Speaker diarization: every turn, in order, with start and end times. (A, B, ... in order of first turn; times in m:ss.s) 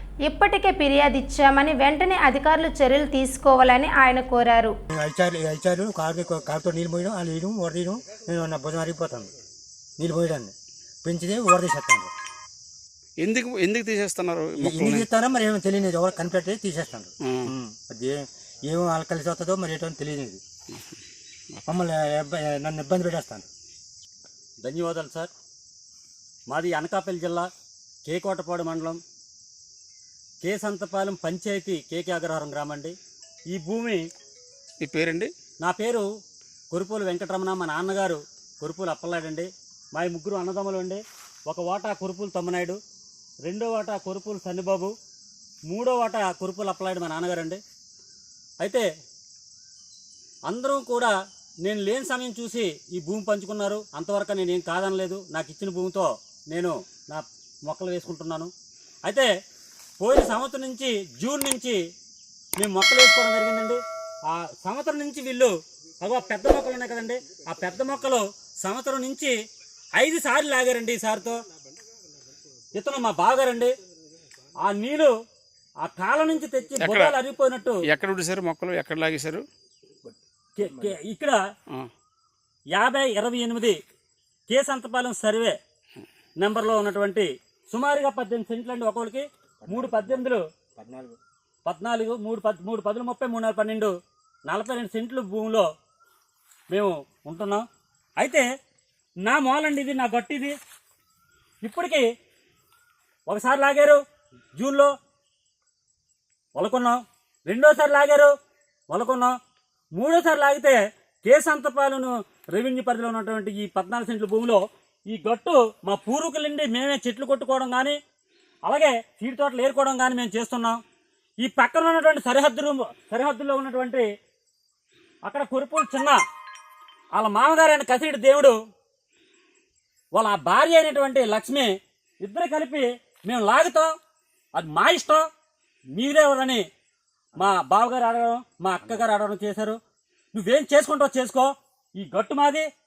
0:00.2-0:04.7 A
0:04.9-0:09.3 B
0:10.0-0:10.5 B
0:11.0-0:12.1 B
0:13.2-0:15.0 C
0:14.6-0:20.4 B
0:17.2-0:17.5 C
0:21.6-0:23.4 B
0:24.6-0:25.3 D
0:26.5-0:27.5 D
0:28.0-0:29.0 D
0:30.4-0:33.0 D
0:33.5-0:34.0 D
0:34.8-0:35.3 C
0:35.6-0:36.0 D
0:36.7-0:42.8 D
0:43.4-0:44.9 D
0:45.7-0:47.6 D
0:48.6-0:48.8 D
0:50.5-0:51.1 D
0:51.6-0:58.5 D
1:00.0-1:01.8 D
1:02.6-1:09.3 D
1:10.0-1:11.4 D
1:12.7-1:13.7 D
1:14.6-1:15.1 D
1:15.8-1:17.8 D
1:16.8-1:17.2 C
1:17.8-1:19.4 C
1:20.6-1:21.4 D
1:22.7-1:23.8 D
1:24.5-1:25.6 D
1:26.4-1:30.4 D
1:30.8-1:31.1 B
1:31.6-1:33.9 D
1:34.5-1:35.7 D
1:36.7-1:37.6 D
1:38.2-1:38.4 D
1:39.2-1:40.5 D
1:41.6-1:42.1 D
1:43.3-1:44.0 D
1:44.6-1:44.9 D
1:46.5-1:48.3 D
1:48.9-1:49.4 D
1:50.0-1:58.0 D
1:58.6-2:00.8 D
2:01.4-2:04.0 D
2:05.2-2:06.2 D
2:07.1-2:08.6 D
2:10.1-2:13.9 D
2:14.6-2:15.2 D
2:15.9-2:16.6 D
2:17.4-2:19.8 D
2:20.3-2:22.7 D